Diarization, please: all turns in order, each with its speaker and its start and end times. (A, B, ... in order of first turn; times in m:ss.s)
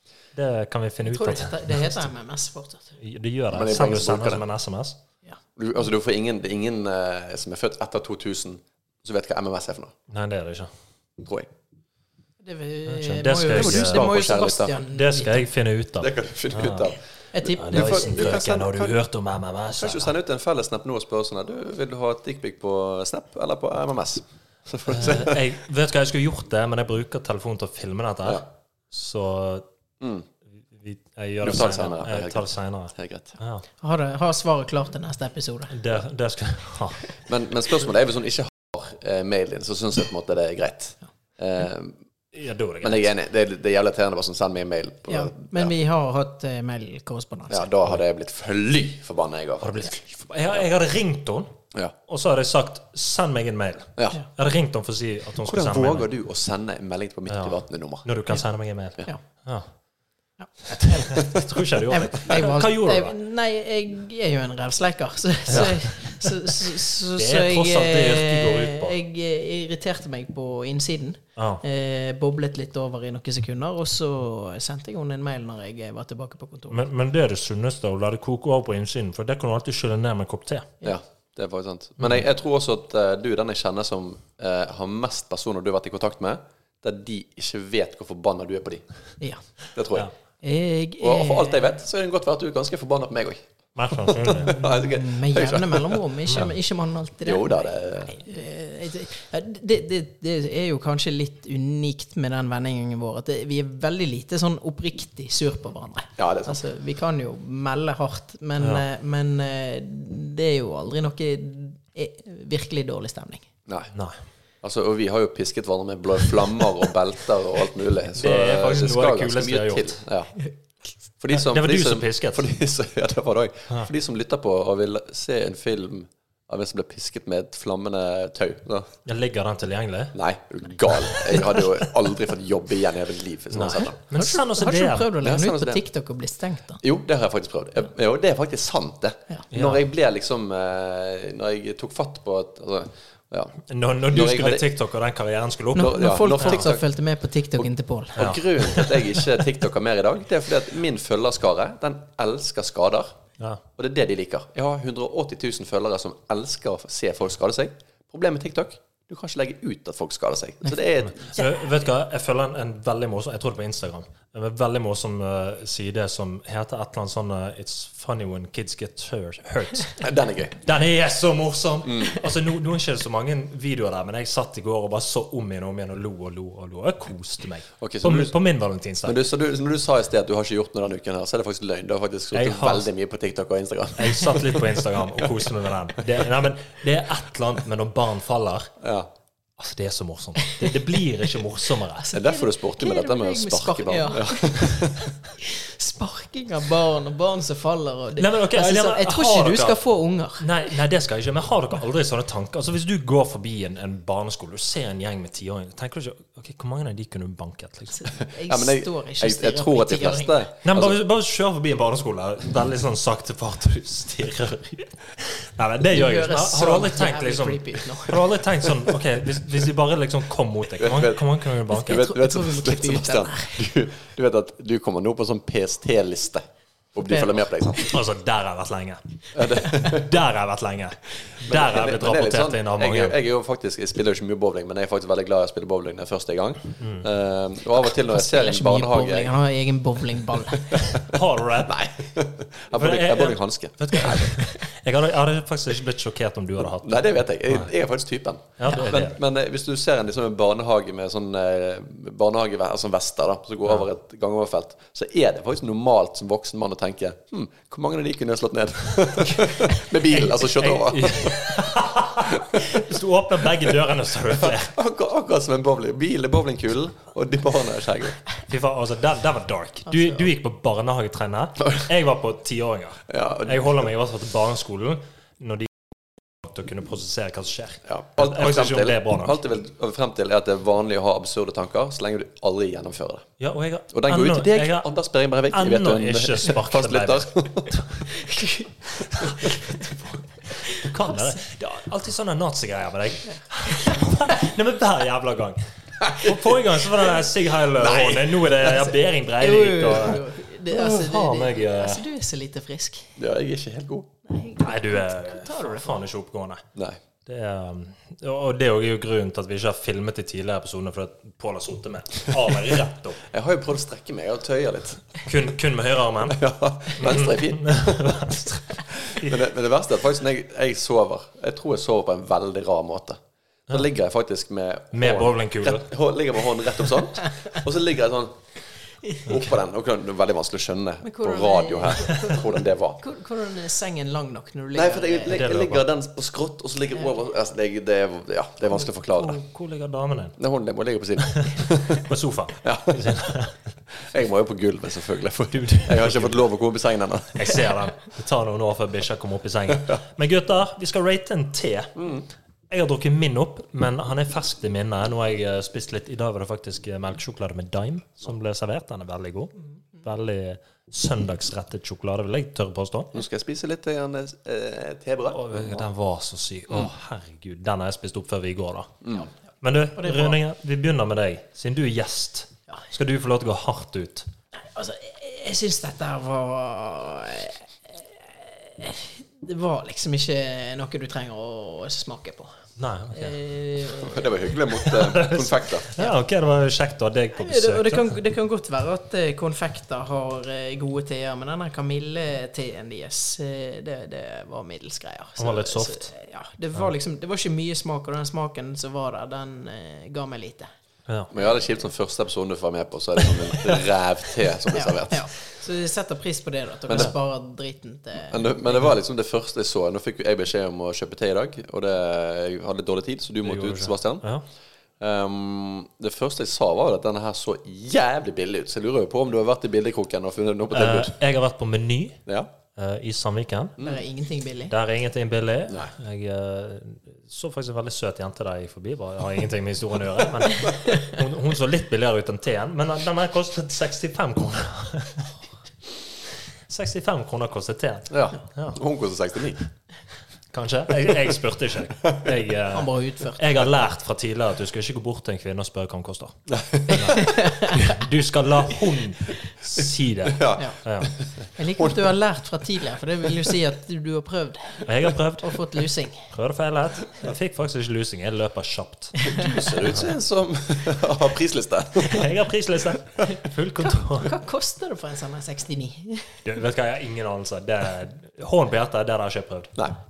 0:00.3-0:02.1 A
0:01.1-0:02.9 B
0:03.0-0:05.0 A
0:03.5-0:04.4 C
0:05.6-0:09.9 C
0:10.1-0:10.7 A
0:11.2-0:11.5 C
0:12.4-0:15.5 B
0:12.9-0:14.2 A
0:13.5-0:14.8 C
0:14.8-0:16.9 A
0:16.0-0:18.9 C
0:17.3-0:18.4 B
0:17.6-0:20.1 A
0:19.8-0:25.4 C
0:24.9-0:29.7 A
0:30.0-0:30.3 C
0:30.7-0:33.6 A
0:31.4-0:33.4 C
0:33.8-0:35.8 B
0:35.7-0:37.2 A
0:37.3-0:42.0 C
0:42.3-0:43.1 A
0:42.8-0:45.7 C
0:45.1-0:47.7 B
0:47.5-0:49.9 C
0:49.6-0:51.5 A
0:52.1-0:56.1 A
0:55.4-0:58.1 C
0:57.3-0:59.7 A
1:00.4-1:16.8 B
1:00.7-1:03.1 A
1:01.2-1:01.4 C
1:05.5-1:09.0 A
1:11.4-1:11.6 A
1:16.7-1:20.7 A
1:20.8-1:28.8 C
1:29.8-1:30.1 C
1:30.4-1:31.6 B
1:31.0-1:36.5 C
1:33.8-1:34.7 A
1:34.6-1:53.5 B
1:37.2-1:38.1 C
1:46.2-1:46.6 C
1:54.6-2:00.3 C
1:58.2-2:00.0 A
2:01.2-2:08.9 C
2:01.3-2:02.5 A
2:09.1-2:10.2 A
2:10.1-2:14.0 C
2:10.9-2:11.7 A
2:13.5-2:15.2 A
2:13.7-2:16.8 B
2:15.2-2:15.8 C
2:16.8-2:24.7 C
2:19.5-2:19.8 A
2:23.7-2:26.7 A
2:25.8-2:26.8 C
2:25.8-2:28.4 B
2:27.6-2:33.2 C
2:28.2-2:29.2 A
2:33.8-2:41.4 C
2:41.0-2:50.1 A
2:50.0-2:50.6 C
2:50.6-2:59.2 A
2:51.8-2:52.2 C
2:57.8-2:58.3 C
2:59.0-3:05.3 C
3:02.3-3:02.9 A
3:04.0-3:08.7 A
3:08.8-3:09.1 C
3:09.6-3:12.1 A
3:12.0-3:20.7 B
3:12.1-3:15.1 C
3:18.2-3:19.8 A
3:20.4-3:28.1 A
3:28.0-3:30.4 B
3:28.2-3:31.0 C
3:30.6-3:42.1 A
3:35.9-3:38.2 B
3:40.8-3:46.4 C
3:41.7-3:43.6 B
3:46.9-3:48.0 C
3:47.1-3:47.4 B
3:47.8-3:53.2 A
3:49.3-3:50.2 C
3:51.4-3:59.3 C
3:56.8-3:57.1 A
3:58.0-4:00.9 B
4:00.7-4:04.4 C
4:00.9-4:01.8 A
4:02.7-4:07.7 A
4:06.8-4:21.7 C
4:08.6-4:09.2 A
4:20.1-4:24.8 A
4:22.2-4:22.8 C
4:24.3-4:28.2 C
4:28.5-4:35.7 A
4:33.1-4:33.8 C
4:36.4-4:39.4 A
4:37.9-4:43.3 C
4:43.4-4:44.9 A
4:43.9-4:47.7 C
4:45.5-4:48.1 A
4:48.2-4:48.7 B
4:49.1-4:49.6 A
4:49.2-4:49.5 C
4:50.6-4:51.4 B
4:50.7-5:02.0 A
4:53.7-4:54.0 B
4:56.0-4:57.1 C
4:57.8-4:58.9 C
4:59.4-5:03.2 B
5:03.2-5:04.1 C
5:04.3-5:06.1 B
5:04.6-5:06.6 A
5:06.8-5:07.0 C
5:07.3-5:13.2 A
5:13.2-5:15.1 C
5:15.2-5:16.4 A
5:16.3-5:28.4 C
5:17.0-5:19.4 A
5:24.9-5:25.9 A
5:29.2-5:33.0 C
5:31.0-5:32.5 B
5:33.0-5:35.4 B
5:34.7-5:39.4 C
5:35.3-5:35.8 A
5:39.1-5:40.4 A
5:40.4-5:42.1 C
5:41.2-5:43.6 A
5:42.6-5:43.2 C
5:44.0-5:47.6 C
5:45.5-5:46.4 A
5:47.4-5:52.0 A
5:49.7-5:50.0 C
5:52.0-5:52.3 C
5:52.7-6:03.2 A
6:03.1-6:05.9 C
6:05.3-6:09.0 A
6:09.6-6:14.3 A
6:10.0-6:10.4 B
6:14.5-6:22.6 B
6:22.8-6:23.4 A
6:23.1-6:24.3 B
6:24.0-6:25.9 C
6:24.7-6:28.2 A
6:27.4-6:40.7 B
6:35.4-6:36.1 A
6:41.3-6:45.3 C
6:44.7-6:48.8 B
6:46.9-6:47.1 C
6:48.3-6:54.2 C
6:53.4-6:54.4 A
6:55.0-7:01.2 C
7:00.7-7:02.2 A
7:02.8-7:03.8 A
7:03.8-7:04.0 C
7:03.8-7:04.7 B
7:04.7-7:15.3 A
7:10.7-7:11.0 B
7:16.7-7:18.8 A
7:18.1-7:19.6 C
7:20.5-7:31.1 A
7:22.7-7:23.4 B
7:26.5-7:27.2 C
7:26.9-7:27.9 B
7:30.3-7:32.1 C
7:31.6-7:34.9 B
7:34.9-7:35.7 A
7:35.4-7:36.3 B
7:36.3-7:40.1 A
7:39.2-7:39.5 B
7:39.2-7:42.4 C
7:42.0-7:44.3 A
7:43.3-7:46.4 B
7:46.4-7:49.7 A